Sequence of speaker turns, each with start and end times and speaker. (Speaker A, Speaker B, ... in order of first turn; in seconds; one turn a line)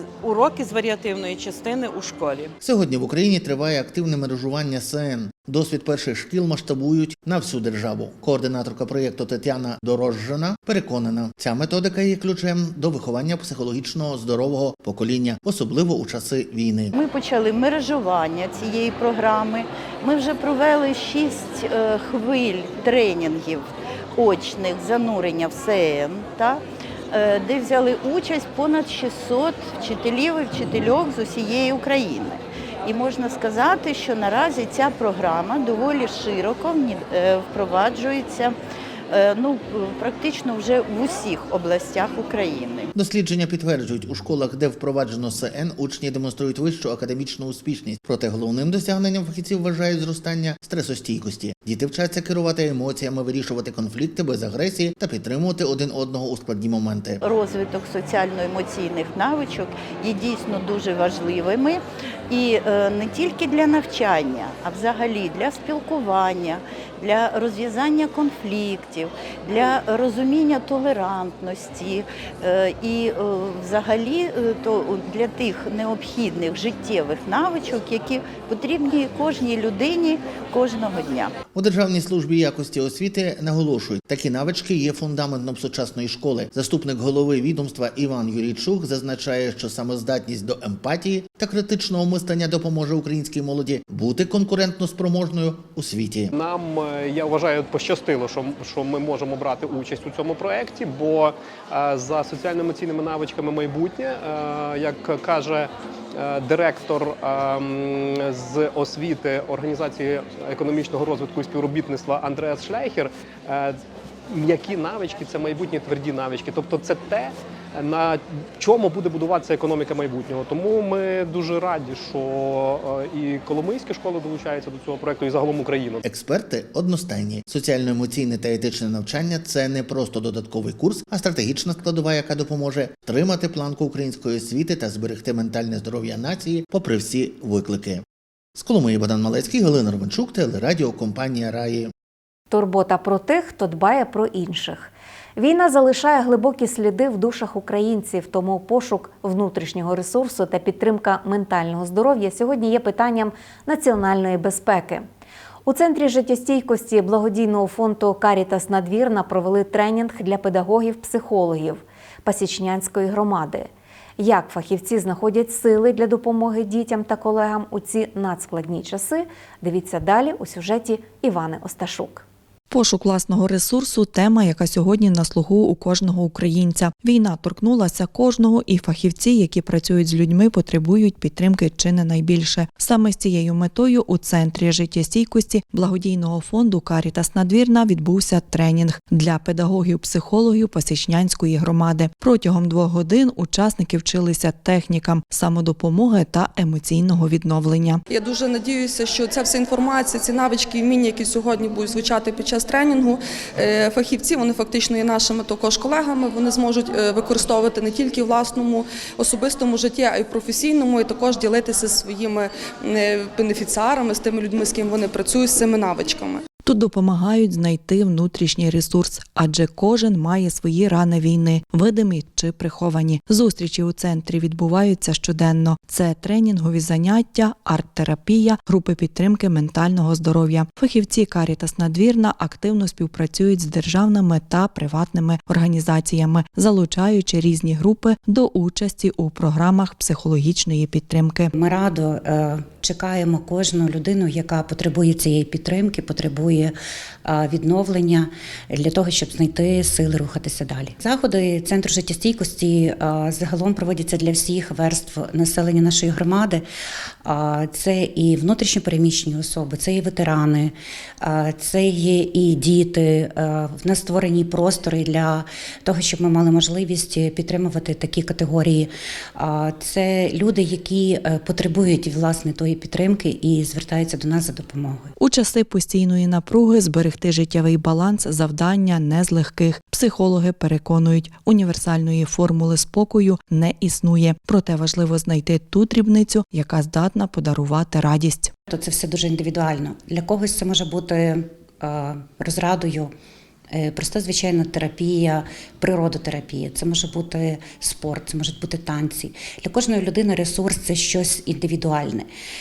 Speaker A: 0.3-2.5
Speaker B: 2.6-16.9
Speaker C: 16.9-38.6
Speaker C: 39.1-42.9
Speaker B: 42.9-57.2
Speaker C: 57.2-81.3
Speaker B: 81.5-96.3
Speaker D: 96.3-126.0
Speaker B: 126.0-138.0
Speaker B: 138.5-141.9
Speaker E: 142.5-155.1
Speaker E: 155.6-163.7
Speaker E: 164.2-172.2
Speaker F: 172.7-198.0
Speaker G: 198.1-216.4
Speaker F: 216.6-241.5
Speaker H: 241.5-256.6
Speaker H: 257.2-275.1
Speaker F: 275.2-288.5
Speaker H: 288.7-293.1
Speaker H: 293.7-302.3